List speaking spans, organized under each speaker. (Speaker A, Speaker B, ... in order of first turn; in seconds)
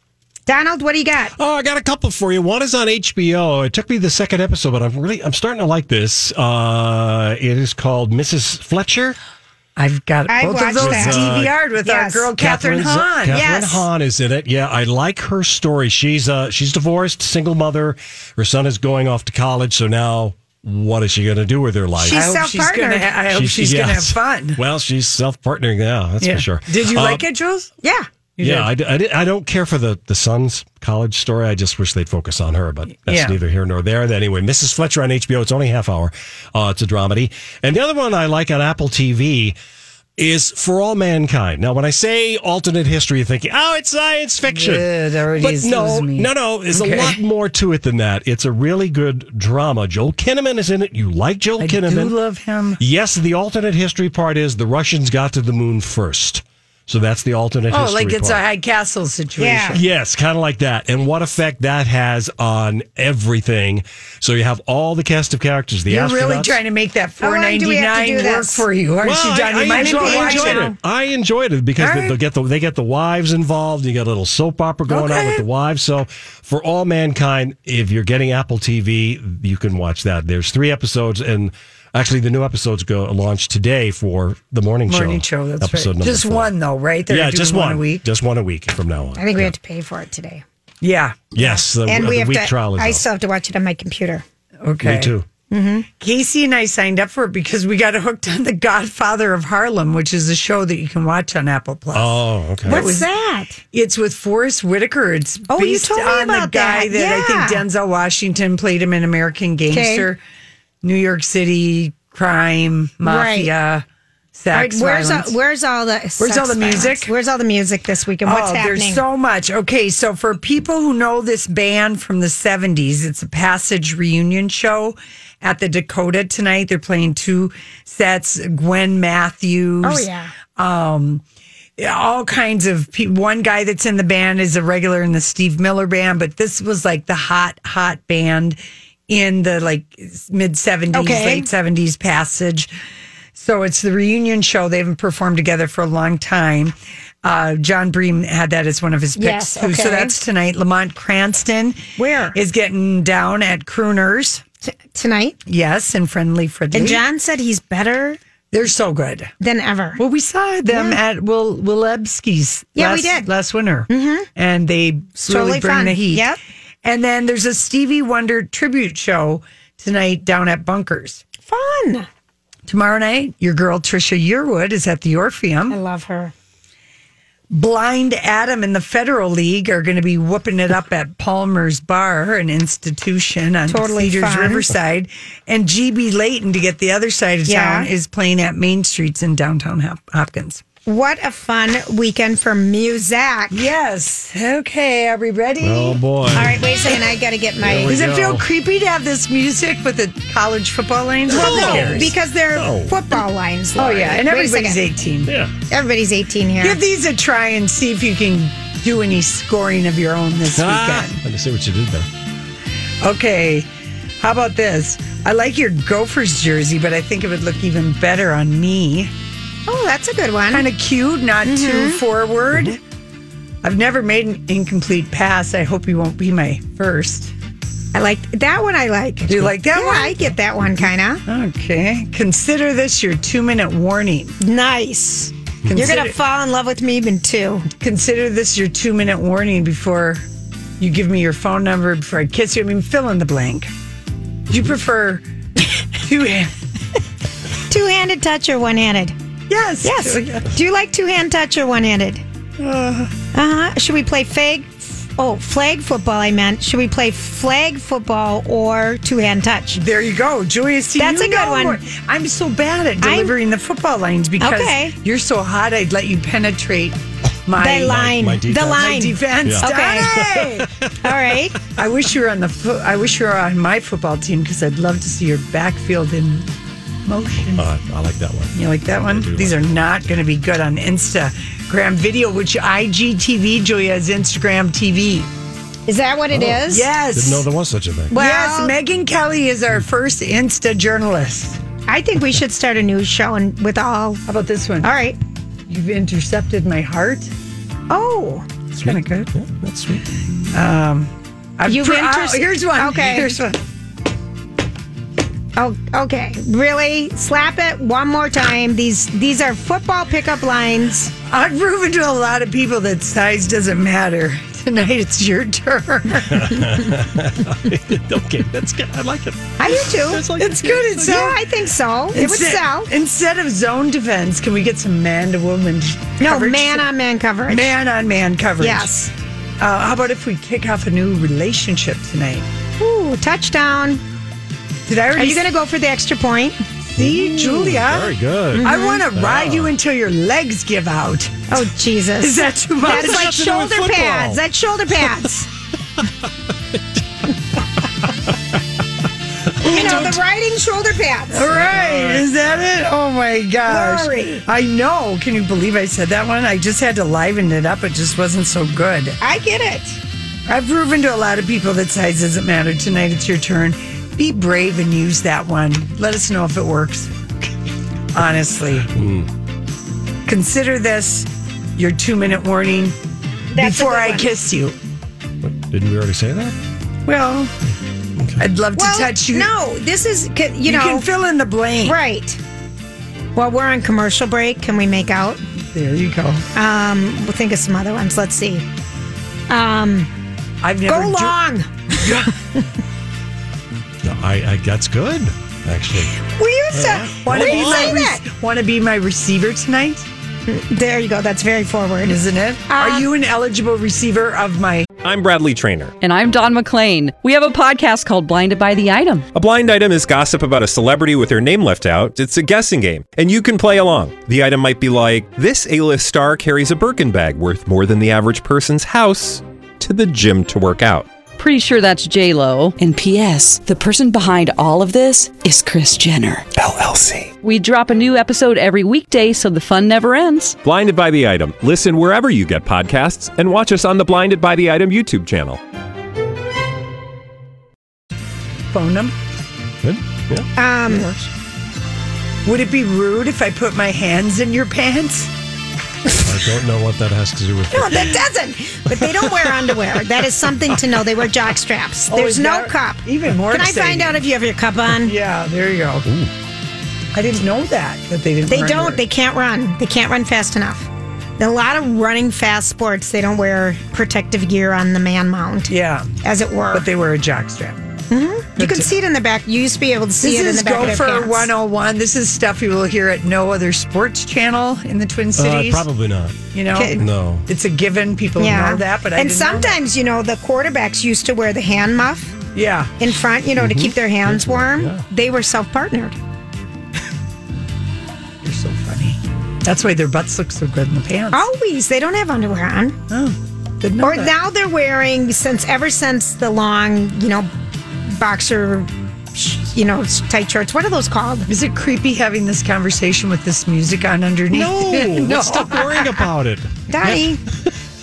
Speaker A: 0.5-1.3, 10.3-12.3, 13.3-13.8, 22.0-23.1, 27.8-28.1, 59.4-59.8, 67.2-68.7, 69.7-70.8, 89.2-90.4, 91.4-94.2, 95.5-95.9, 102.7-103.6, 105.5-107.6, 109.7-110.1, 113.0-113.5, 114.5-119.0, 129.8-130.3, 140.9-141.5, 149.2-150.2, 152.0-152.4, 154.6-155.4, 156.7-158.2, 159.4-160.0, 160.7-161.0, 162.8-163.3, 163.9-164.3, 165.3-166.4, 171.4-172.1, 175.7-176.3, 183.7-184.7, 187.5-187.9, 190.9-193.6, 196.3-198.0, 201.3-204.8, 205.7-206.8, 219.7-220.7, 221.4-222.0, 227.9-231.2, 234.4-237.7, 247.7-249.2, 249.8-252.2, 253.3-259.8, 261.0-261.8, 263.0-263.3, 264.4-264.9, 267.6-270.3, 271.0-271.6, 285.9-286.9, 288.1-288.7, 291.9-294.2, 294.8-295.2, 297.9-298.5, 301.7-303.4, 305.6-311.1, 319.6-320.3, 321.0-322.9, 326.2-327.8, 328.6-329.1, 332.8-334.0, 335.2-336.6, 338.5-339.1, 341.5-345.5, 349.6-351.7, 353.7-354.4, 359.2-360.0, 373.5-374.3, 378.8-381.1, 381.8-382.4, 383.4-385.4, 386.6-388.7, 389.5-390.1, 390.9-392.6, 396.2-398.2, 400.5-403.1, 440.6-441.1, 447.7-455.1, 458.5-466.9, 468.1-471.5, 476.7-477.0, 478.4-482.3, 483.0-486.2, 491.3-493.0, 494.0-497.5, 498.0-501.5, 506.9-507.4
Speaker B: 1.4-9.2, 10.7-11.5, 12.4-22.2, 23.3-27.2, 28.4-39.5, 40.2-52.1, 52.8-58.4, 59.7-66.6, 69.0-86.5, 87.1-89.5, 91.3-93.0, 94.8-95.3, 101.9-102.9, 195.6-196.7, 197.6-198.4, 201.3-203.0, 205.3-205.5, 210.6-212.1, 235.7-235.9, 267.9-270.9, 277.5-279.8, 287.1-288.1, 298.9-300.0, 316.3-321.1, 337.0-339.7, 342.9-344.4, 349.6-350.1, 351.7-352.3, 368.9-369.3, 375.4-376.6, 394.0-396.2, 396.7-398.0, 426.7-427.2, 439.8-440.5, 446.2-448.2, 449.0-449.8, 475.4-477.4, 483.6-485.0, 504.5-507.3
Speaker C: 9.8-13.4, 22.1-24.6, 26.2-27.7, 28.4-28.7, 33.1-33.4, 44.5-47.2, 51.6-52.8, 57.7-59.8, 65.9-70.7, 71.8-72.2, 74.9-75.5, 84.9-88.0, 90.8-91.3, 94.6-95.1, 96.0-103.1, 103.7-110.2, 110.8-115.4, 116.2-117.1, 118.2-131.2, 131.8-142.7, 143.3-151.8, 152.3-154.4, 155.5-157.0, 158.5-159.3, 160.0-166.3, 166.8-171.2, 172.7-175.8, 177.5-190.6, 193.5-196.0, 197.8-202.1, 203.8-205.3, 206.6-211.2, 213.0-213.7, 214.2-219.1, 220.5-222.8, 223.6-227.3, 229.3-230.2, 231.3-234.4, 235.7-236.1, 237.8-240.2, 240.8-243.7, 244.5-245.2, 245.9-246.5, 249.5-250.5, 252.6-253.1, 259.8-268.0, 268.7-270.7, 271.8-276.5, 277.1-277.7, 278.6-285.3, 286.4-287.5, 288.1-291.6, 294.3-294.9, 295.7-297.3, 298.7-299.3, 300.5-303.6, 311.3-316.6, 320.3-321.4, 322.1-326.9, 327.5-329.0, 329.6-332.5, 334.9-335.5, 337.0-341.4, 342.2-343.3, 349.6-350.2, 351.3-359.2, 360.5-367.1, 368.1-368.9, 370.3-373.0, 373.6-374.8, 377.1-377.5, 378.4-379.5, 380.6-382.0, 385.7-386.4, 390.6-391.4, 397.2-400.1, 402.0-404.9, 438.7-439.2, 442.4-445.3, 452.1-454.2, 455.0-456.1, 457.1-459.0, 465.7-466.1, 466.7-467.8, 468.6-468.9, 470.2-475.9, 476.5-479.8, 482.6-482.9, 488.4-491.4, 493.1-494.3, 501.5-506.0
Speaker D: 405.0-405.9, 409.3-421.1, 430.6-435.6
Speaker E: 406.0-409.3, 421.4-426.5, 427.4-430.6